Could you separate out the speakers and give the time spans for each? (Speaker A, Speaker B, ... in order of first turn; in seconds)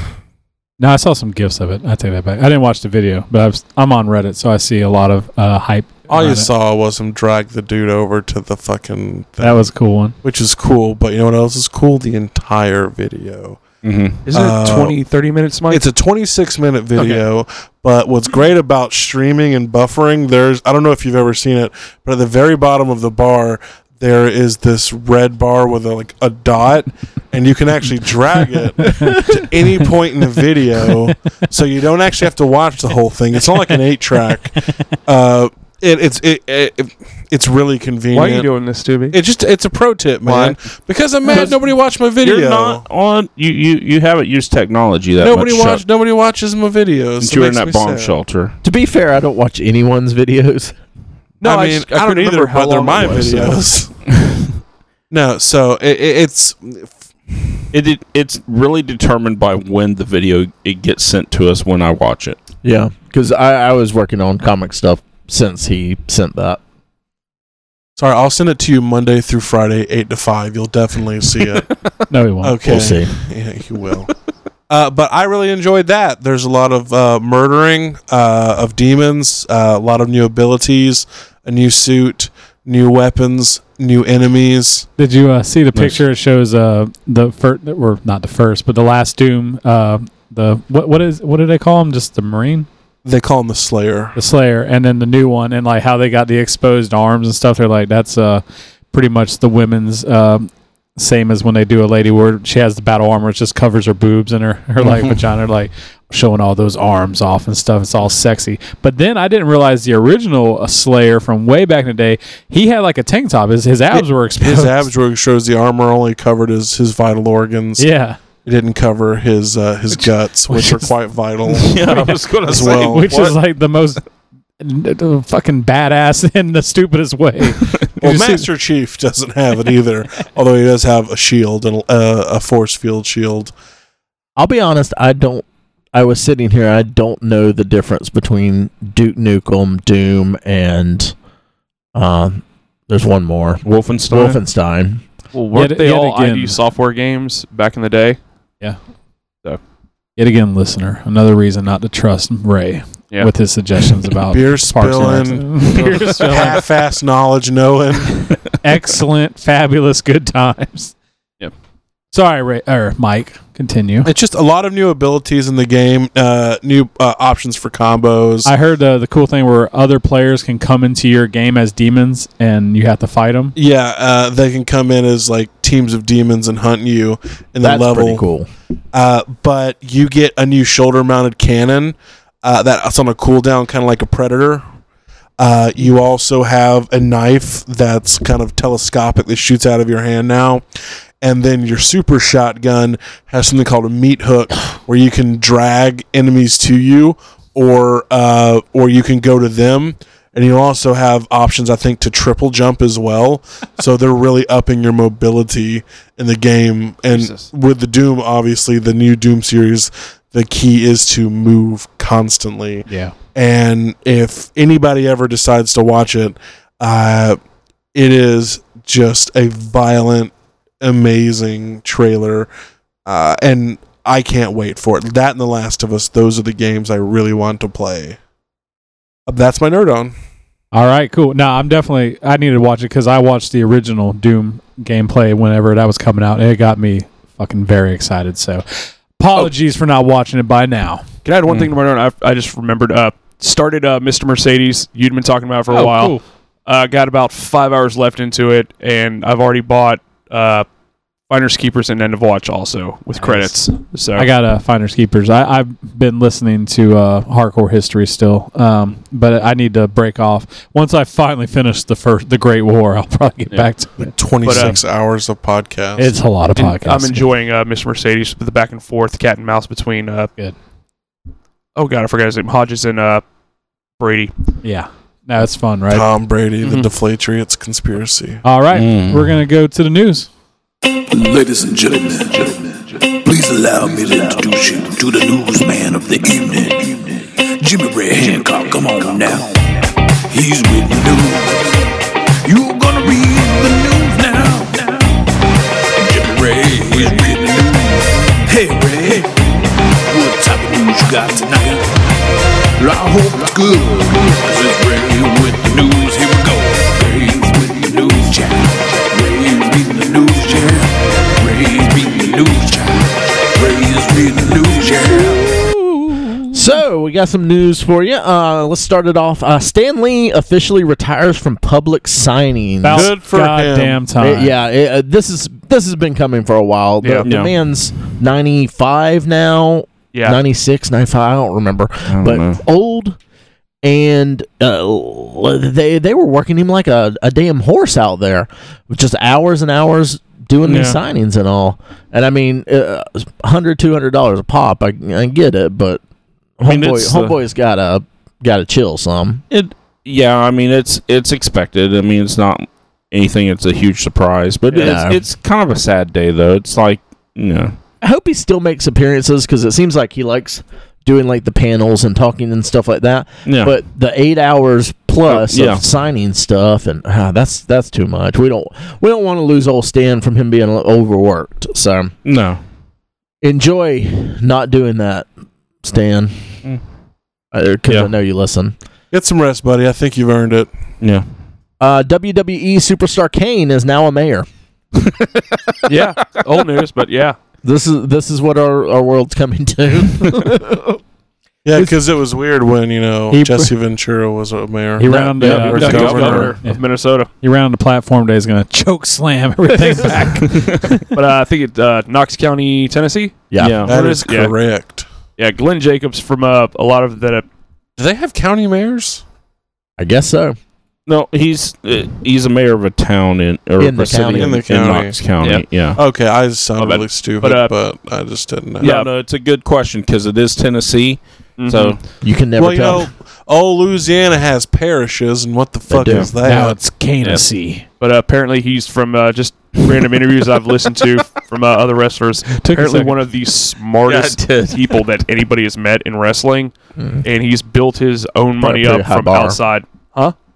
Speaker A: 0.8-6.5, 9.4-10.1, 28.8-29.4, 30.8-31.1, 72.1-72.7, 85.0-92.7, 94.2-114.9, 117.8-118.2, 120.5-120.9, 121.9-124.0, 124.6-128.5, 145.5-146.6, 150.2-156.6, 158.6-160.9, 162.1-164.1, 168.4-173.5, 212.9-213.1, 230.7-238.6, 239.2-241.0, 245.7-246.2, 254.1-264.8, 266.0-267.1, 274.6-276.1, 278.4-280.3, 322.8-324.5, 393.3-393.7, 395.0-401.0, 426.4-427.8, 432.6-433.2
Speaker B: 6.1-9.6, 10.2-13.6, 14.3-15.0, 15.7-38.5, 39.1-42.8, 45.2-48.1, 51.4-53.9, 55.1-57.6, 68.0-71.7, 72.4-74.1, 74.7-84.9, 93.0-94.2, 113.9-117.9, 118.4-123.1, 128.0-133.5, 154.3-158.3, 164.0-168.5, 173.6-178.2, 178.9-184.6, 185.4-190.6, 191.2-217.4, 217.9-222.5, 223.1-228.2, 229.3-230.1, 264.0-266.1, 275.9-278.4, 322.9-324.1, 379.1-380.7, 391.6-396.6, 403.8-405.1, 408.0-409.2, 414.3-415.2, 415.9-418.9, 422.5-426.8
Speaker C: 13.8-14.2, 42.2-45.8, 47.2-48.5, 57.7-62.4, 85.7-86.0, 104.8-105.2, 121.5-123.4, 143.6-144.4, 241.5-241.7, 278.7-279.2, 327.2-327.5, 332.1-332.6, 340.6-341.0, 346.6-347.4, 349.5-357.8, 363.4-363.8, 365.2-365.8, 372.2-372.6, 385.1-386.1, 395.4-396.5, 400.5-401.0, 403.6-403.9, 411.1-416.0, 418.8-422.0, 426.1-426.3, 434.1-434.9
Speaker D: 14.3-15.9, 38.1-39.2, 40.2-40.5, 41.3-41.5, 51.4-53.6, 145.3-148.2, 155.7-156.5, 207.1-207.5, 241.2-250.7, 251.3-254.3, 264.4-264.8, 266.6-270.3, 271.8-273.2, 274.0-274.3, 327.0-327.3, 330.1-330.4, 354.7-354.9, 385.9-387.4, 395.7-397.3, 399.7-400.4, 401.1-404.5, 405.4-407.4, 416.8-417.7, 418.8-419.1, 421.6-422.0, 428.0-440.3
Speaker E: 48.6-50.7, 62.6-66.6, 72.6-73.1, 134.3-141.1, 141.9-145.0, 177.6-178.5, 315.3-315.9, 316.5-323.1, 324.2-333.2, 333.8-346.0, 346.6-349.4, 354.8-355.2, 358.0-372.1, 373.4-375.3, 375.8-376.3, 377.5-378.7, 381.8-384.4, 387.6-391.0, 395.1-395.4, 403.5-403.8, 410.0-410.6, 413.8-414.6, 422.2-423.1, 425.9-426.3, 438.6-439.6
Speaker F: 281.1-295.4, 295.9-302.2, 302.8-315.6